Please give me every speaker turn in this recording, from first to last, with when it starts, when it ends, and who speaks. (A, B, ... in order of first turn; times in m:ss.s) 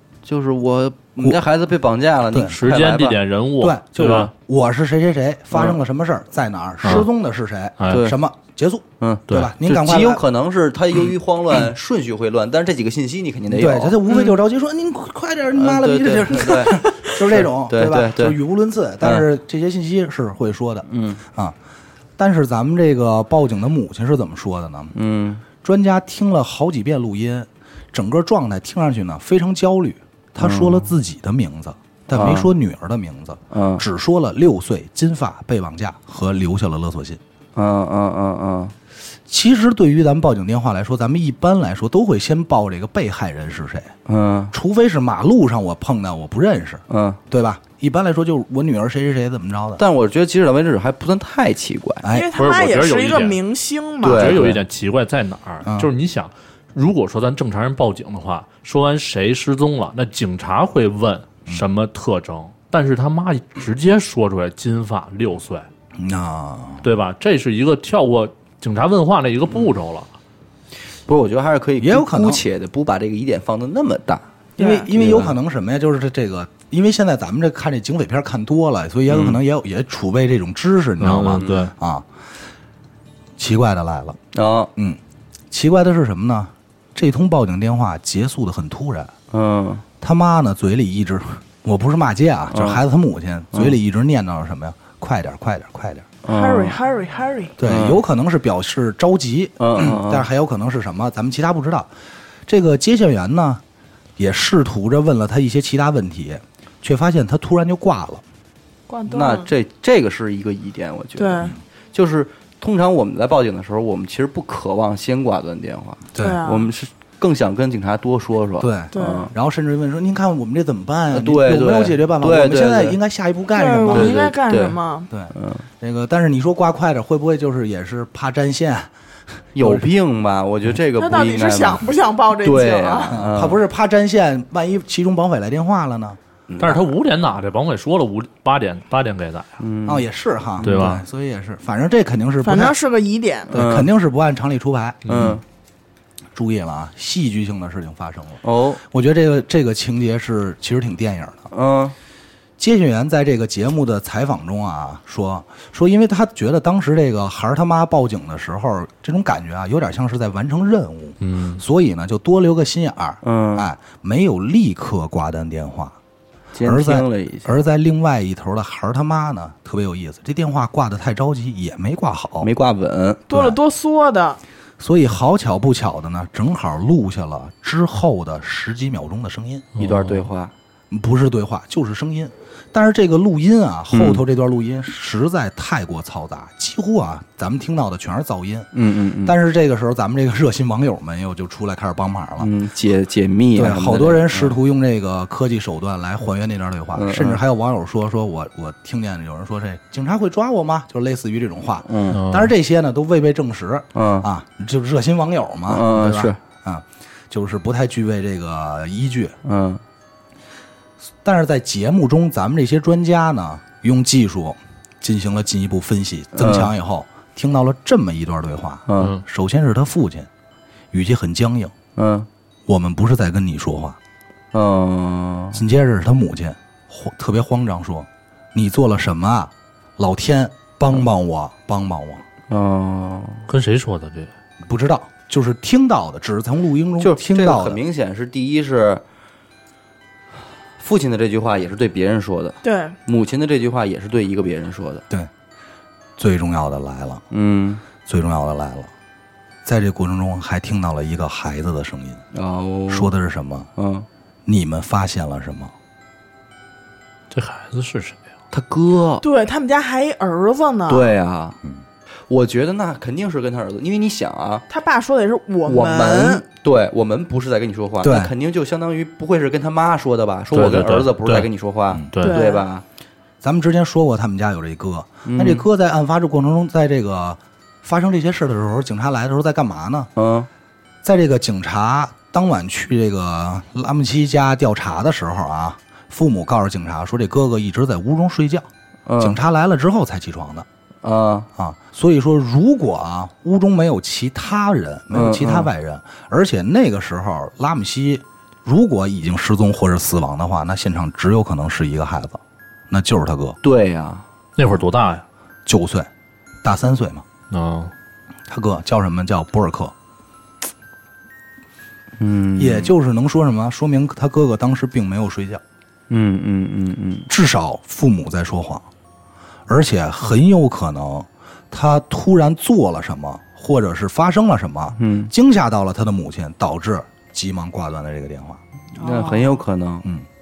0:00.2-0:03.2 A
0:02.3-0:02.6 B
0:02.4-0:04.3 C
0:03.6-0:10.2 B
0:06.8-0:07.1 C
0:07.8-0:08.1 C
0:07.9-0:08.2 A
0:09.0-0:14.0 A
0:13.5-0:21.5 B
0:15.5-0:18.4 A
0:19.0-0:19.2 A
0:20.9-0:21.2 A
0:22.2-0:24.9 B
0:24.9-0:25.4 A
0:25.6-0:37.2 B
0:30.4-0:30.9 A
0:32.1-0:32.5 A
0:33.5-0:33.8 A
0:37.5-0:38.7 A
0:39.3-0:43.9 B
0:44.0-0:44.5 A
0:44.5-0:49.8 B
0:46.9-0:47.2 A
0:49.8-0:52.1 A
0:52.0-0:52.3 B
0:52.1-0:54.4 D
0:52.3-0:53.4 C
0:54.0-0:54.6 A
0:54.1-1:05.7 C
0:55.6-0:55.9 B
1:06.0-1:06.8 B
1:06.8-1:10.1 C
1:11.1-1:14.2 A
1:11.8-1:12.4 B
1:14.6-1:14.9 D
1:14.6-1:22.0 B
1:14.9-1:15.4 A
1:19.1-1:19.4 C
1:21.0-1:21.7 C
1:21.3-1:21.6 A
1:23.4-1:24.2 B
1:24.3-1:24.7 A
1:25.5-1:29.1 B
1:29.3-1:29.8 A
1:30.0-1:36.1 B
1:32.5-1:32.8 A
1:36.2-1:36.8 A
1:36.3-1:37.6 D
1:37.6-1:41.9 B
1:37.6-1:38.0 A
1:39.6-1:40.2 A
1:42.5-1:43.6 B
1:44.2-1:48.2 B
1:48.9-1:49.5 D
1:49.1-1:59.3 A
1:51.2-1:51.6 D
1:56.1-1:56.4 B
1:56.2-1:56.7 D
1:58.6-2:04.1 B
1:58.9-1:59.3 D
2:01.1-2:03.0 A
2:03.5-2:05.1 D
2:03.9-2:04.8 A
2:05.1-2:09.8 B
2:05.3-2:05.6 A
2:09.5-2:11.8 A
2:11.0-2:13.2 D
2:12.4-2:13.6 A
2:13.1-2:16.2 B
2:16.5-2:16.9 A
2:16.6-2:19.5 C
2:19.6-2:20.0 A
2:19.8-2:22.7 B
2:20.6-2:21.0 A
2:20.6-2:21.0 C
2:22.4-2:23.5 D
2:23.5-2:23.9 A
2:23.5-2:25.3 B
2:25.0-2:25.4 C
2:25.1-2:25.4 A
2:26.3-2:31.5 B
2:28.4-2:28.8 A
2:31.5-2:31.9 A
2:32.6-2:46.0 B
2:41.2-2:41.6 C
2:43.2-2:43.7 A
2:46.5-2:47.5 A
2:46.6-2:52.5 B
2:52.4-2:53.3 A
2:53.3-2:54.4 D
2:53.3-2:53.6 B
2:54.8-2:59.7 B
2:59.8-3:00.3 C
2:59.8-3:00.5 A
3:00.9-3:08.7 B
3:03.9-3:04.2 A
3:08.7-3:09.3 A
3:09.2-3:12.5 B
3:12.4-3:14.6 A
3:13.6-3:29.4 B
3:16.9-3:17.4 A
3:21.8-3:22.2 A
3:22.1-3:22.5 C
3:23.9-3:24.3 A
3:25.7-3:26.4 A
3:29.4-3:29.8 A
3:31.2-3:40.3 B
3:36.3-3:36.7 A
3:38.9-3:39.2 A
3:40.9-3:41.7 B
3:42.0-3:42.3 A
3:42.7-3:44.0 B
3:44.5-3:45.6 A
3:45.5-3:52.2 B
3:52.5-3:53.5 A
3:53.5-3:54.3 C
3:54.6-3:57.8 B
3:57.0-3:59.0 A
4:00.8-4:05.0 A
4:02.6-4:03.0 D
4:06.2-4:07.2 B
4:07.3-4:07.8 A
4:08.0-4:08.9 B
4:09.6-4:12.2 B
4:12.3-4:13.1 A
4:12.9-4:13.7 B
4:13.8-4:14.1 A
4:14.4-4:15.7 B
4:17.3-4:18.2 C
4:18.5-4:19.2 A
4:19.2-4:21.1 D
4:20.9-4:21.6 A
4:22.3-4:24.6 A
4:24.7-4:26.4 D
4:25.6-4:32.8 A
4:28.0-4:28.3 B
4:30.5-4:31.5 C
4:32.1-4:32.4 C
4:32.2-4:32.6 D
4:33.4-4:40.1 B
4:35.2-4:35.6 A
4:40.2-4:40.5 A
4:41.0-4:48.7 B
4:49.1-4:49.4 A
4:49.2-4:50.6 B
4:51.0-4:51.5 A
4:51.6-5:03.6 B
4:55.1-4:55.7 A
5:03.6-5:04.2 A
5:04.6-5:05.2 C
5:05.6-5:06.1 B
5:06.6-5:07.2 B
5:07.5-5:07.9 C
5:08.5-5:09.9 B
5:12.2-5:12.9 A
5:12.6-5:15.6 B
5:16.1-5:17.3 A
5:17.3-5:18.9 B
5:19.7-5:28.6 B
5:25.0-5:25.3 A
5:29.0-5:29.6 D
5:29.0-5:30.0 A